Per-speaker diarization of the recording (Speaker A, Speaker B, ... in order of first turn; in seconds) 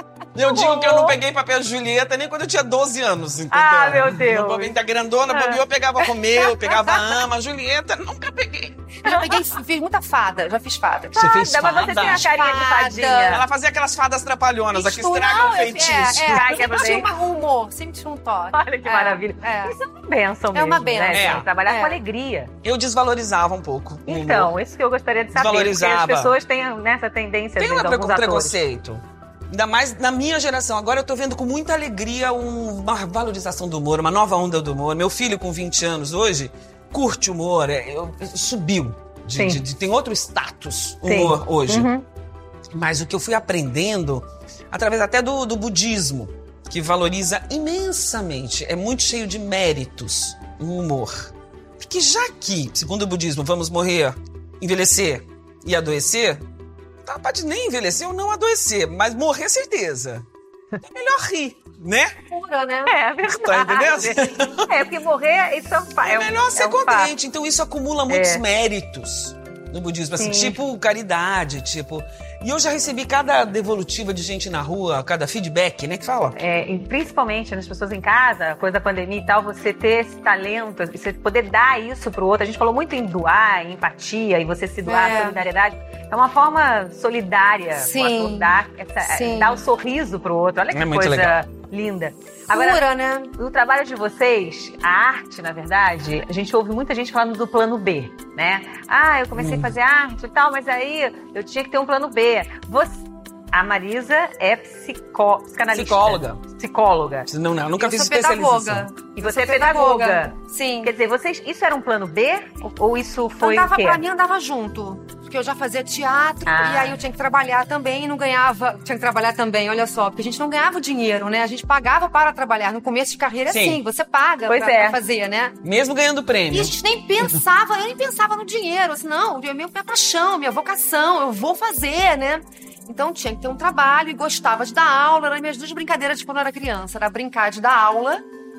Speaker A: 0.3-9.0, 11.1-12.3, 13.3-16.8, 21.1-21.5, 22.6-24.5, 25.3-26.4, 27.6-41.9, 42.7-56.4, 57.0-60.2, 60.8-62.1, 63.2-64.9, 66.0-76.4, 90.7-91.3, 99.3-99.7, 105.7-106.4, 107.3-108.9, 123.5-123.8, 125.6-126.7
Speaker B: 0.4-1.2, 3.5-4.8, 5.3-5.6, 11.1-13.4, 16.2-17.1, 18.5-22.5, 24.1-28.6, 39.4-39.6, 41.0-42.0, 62.9-67.1, 68.1-68.4, 70.2-70.6, 76.3-107.3, 109.1-114.0, 116.5-117.0, 124.5-125.0
Speaker C: 9.0-11.2, 12.2-13.3, 14.7-19.8, 20.5-22.0, 62.3-62.9, 84.8-85.4, 87.8-89.6, 92.5-93.3, 107.8-110.9, 113.4-125.5, 126.5-138.2